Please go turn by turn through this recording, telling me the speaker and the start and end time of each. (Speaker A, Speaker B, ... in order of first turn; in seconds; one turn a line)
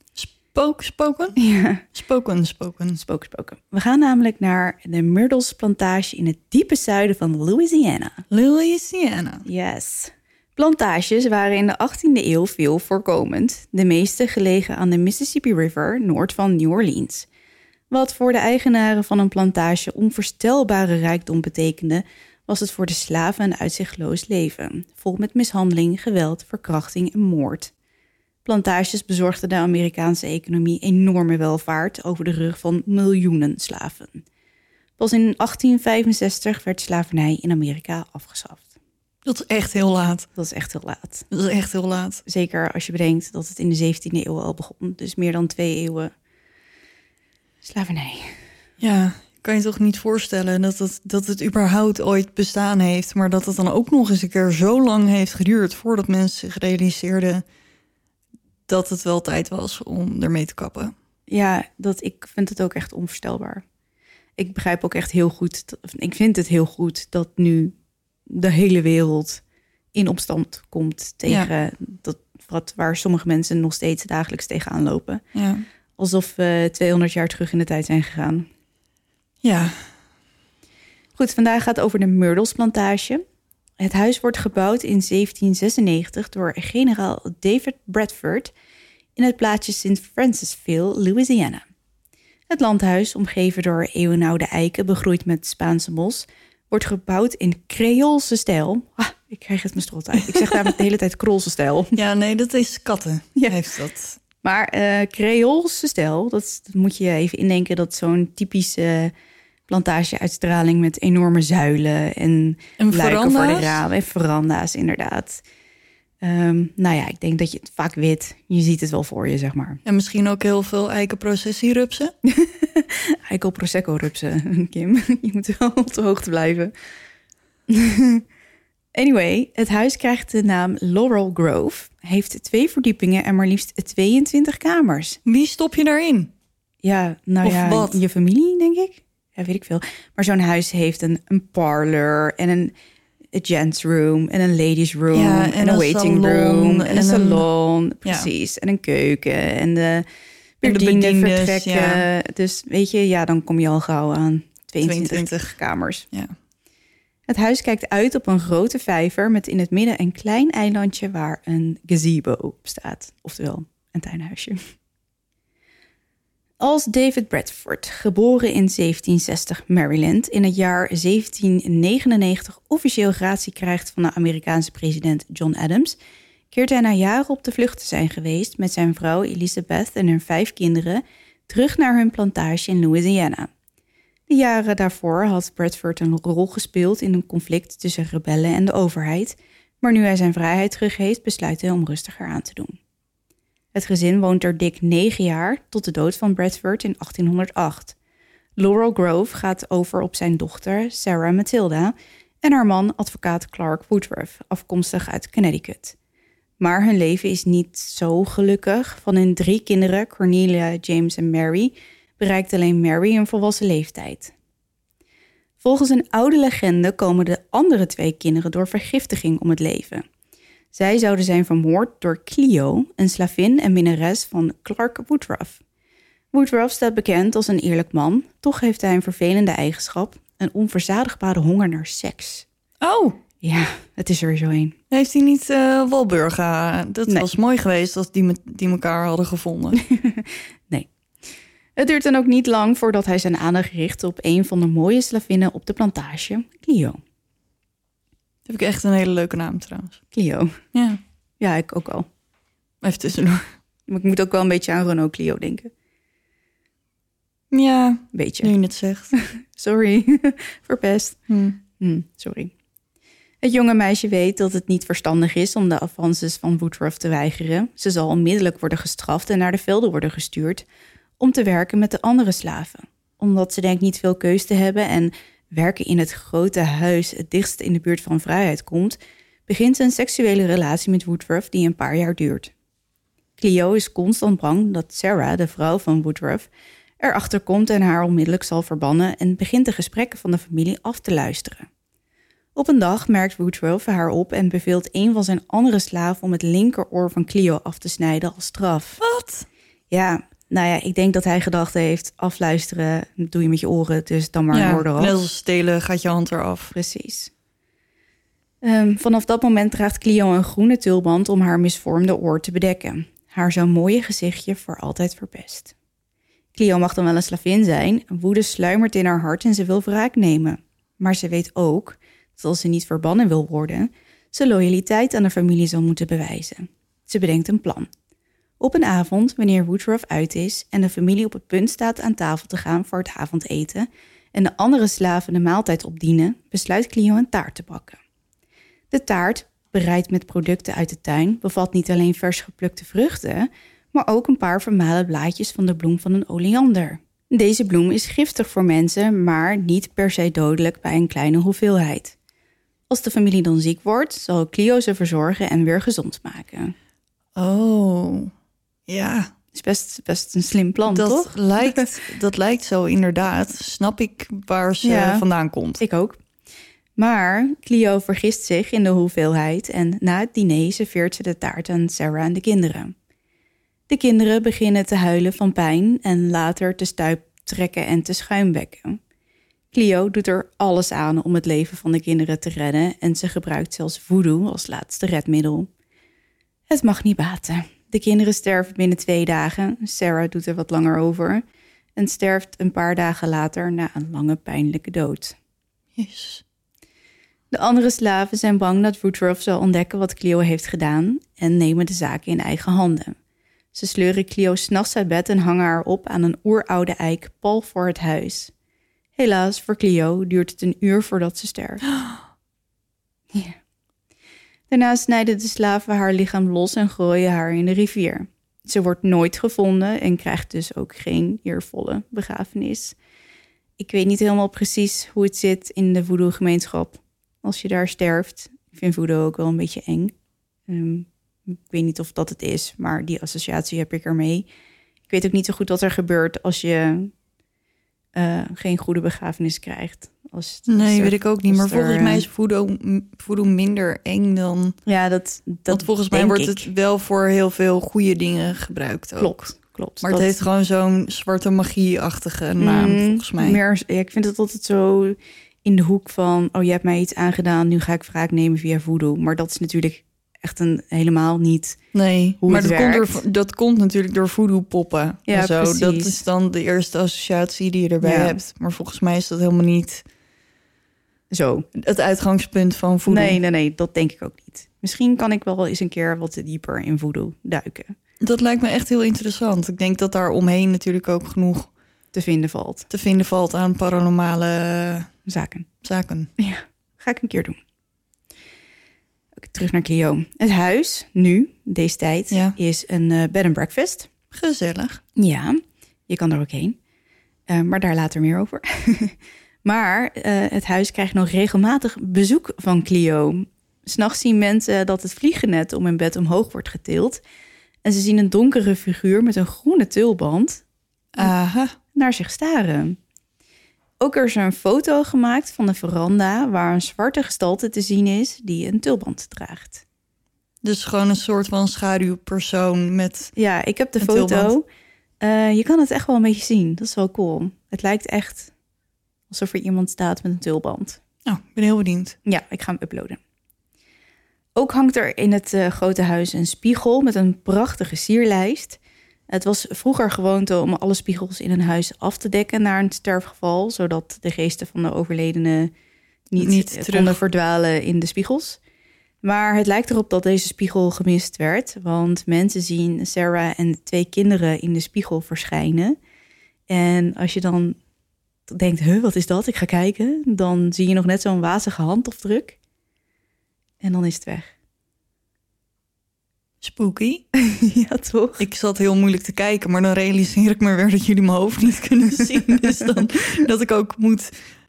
Speaker A: 0.1-1.4
Speaker B: 1.4-1.8
Speaker A: 1.9-3.0
Speaker B: 3.0-8.2
Speaker A: 8.3-9.4
Speaker B: 9.4-17.3
Speaker B: 17.9-27.7
Speaker B: 28.4-34.2
Speaker B: 35.0-38.6
Speaker A: 39.2-40.3
Speaker B: 40.4-41.3
Speaker A: 41.3-42.2
Speaker B: 42.2-46.1
Speaker B: 47.6-48.4
Speaker A: 48.8-57.4
Speaker A: 58.7-60.9
Speaker B: 61.3-63.6
Speaker B: 64.4-67.7
Speaker B: 68.3-69.4
Speaker B: 69.9-75.2
Speaker A: 75.3-75.6
Speaker B: 76.0-78.5
Speaker A: 79.4-79.8
Speaker B: 81.1-83.2
Speaker B: 83.8-88.5
Speaker B: 89.2-91.6
Speaker B: 92.5-102.0
Speaker A: 100.3-100.7
Speaker A: 101.9-104.2
Speaker B: 104.4-109.1
Speaker B: 109.7-115.4
Speaker A: 112.8-113.8
Speaker B: 116.2-119.8
Speaker A: 119.8-122.1
Speaker B: 122.2-126.7
Speaker B: 127.7-128.2
Speaker B: 128.9-135.2
Speaker A: 135.2-136.3
Speaker B: 136.8-142.7
Speaker A: 137.4-138.0
Speaker B: 143.3-150.1
Speaker A: 145.1-147.5
Speaker A: 148.0-148.3
Speaker B: 150.6-156.1
Speaker A: 150.6-152.0
Speaker A: 154.8-155.5
Speaker B: 157.3-164.6
Speaker B: 166.6-176.0
Speaker B: 176.5-183.5
Speaker B: 184.3-192.8
Speaker B: 193.7-197.9
Speaker B: 198.6-205.9
Speaker B: 206.6-214.3
Speaker B: 215.6-220.0
Speaker B: 220.7-225.6
Speaker B: 226.3-232.4
Speaker A: 232.8-233.2
Speaker B: 233.4-234.8
Speaker A: 234.9-239.8
Speaker B: 239.7-240.9
Speaker B: 241.8-247.0
Speaker A: 248.4-250.0
Speaker B: 250.1-250.6
Speaker A: 250.7-251.0
Speaker B: 251.4-252.1
Speaker A: 252.8-253.4
Speaker B: 253.9-255.7
Speaker A: 257.5-259.1
Speaker B: 258.1-258.5
Speaker B: 259.1-261.2
Speaker A: 261.3-261.6
Speaker B: 261.8-262.5
Speaker B: 263.4-270.6
Speaker B: 271.2-282.5
Speaker B: 283.4-286.5
Speaker B: 287.0-291.7
Speaker B: 292.6-299.0
Speaker A: 299.0-299.4
Speaker B: 299.9-305.1
Speaker A: 304.5-306.7
Speaker B: 306.7-307.3
Speaker B: 308.6-315.7
Speaker B: 316.5-327.9
Speaker B: 328.6-338.0
Speaker B: 338.9-352.1
Speaker B: 352.9-356.7
Speaker A: 357.4-358.3
Speaker A: 358.9-359.3
Speaker B: 359.5-361.9
Speaker A: 360.9-365.8
Speaker B: 364.8-365.2
Speaker B: 365.8-366.2
Speaker B: 367.0-372.9
Speaker B: 373.9-379.0
Speaker B: 379.7-385.7
Speaker B: 386.7-391.4
Speaker B: 392.0-395.4
Speaker A: 395.9-396.4
Speaker B: 397.5-403.1
Speaker B: 403.7-408.5
Speaker B: 409.1-411.8
Speaker A: 411.9-412.2
Speaker B: 414.7-422.9
Speaker B: 423.8-430.1
Speaker B: 430.7-434.5
Speaker B: 435.1-437.1
Speaker B: 438.1-442.2
Speaker A: 440.7-444.8
Speaker B: 444.9-446.7
Speaker A: 445.7-449.4
Speaker B: 449.2-450.3
Speaker A: 450.0-453.6
Speaker B: 452.6-461.8
Speaker A: 461.9-470.0
Speaker B: 462.4-463.2
Speaker B: 465.3-466.2
Speaker B: 468.0-468.4
Speaker B: 471.3-471.6
Speaker A: 471.7-473.4
Speaker B: 473.1-477.9
Speaker A: 478.2-481.7
Speaker B: 482.1-482.9
Speaker A: 482.9-485.1
Speaker B: 485.2-485.7
Speaker A: 485.8-486.3
Speaker B: 486.4-487.6
Speaker B: 489.4-494.1
Speaker A: 494.3-495.0
Speaker B: 495.1-496.8
Speaker B: 497.5-507.2
Speaker B: 507.8-510.6
Speaker A: 511.1-511.7
Speaker B: 511.9-513.0
Speaker B: 514.0-519.8
Speaker A: 520.6-523.3
Speaker B: 523.4-524.6
Speaker A: 524.0-524.5
Speaker B: 525.2-528.5
Speaker B: 529.3-531.0
Speaker A: 531.2-532.1
Speaker B: 532.2-533.2
Speaker B: 534.5-545.7
Speaker B: 546.3-548.6
Speaker A: 546.4-547.2
Speaker B: 549.2-556.0
Speaker B: 556.7-557.8
Speaker B: 558.5-562.5
Speaker B: 563.8-564.5
Speaker A: 566.6-567.2
Speaker B: 567.3-568.4
Speaker A: 568.4-574.3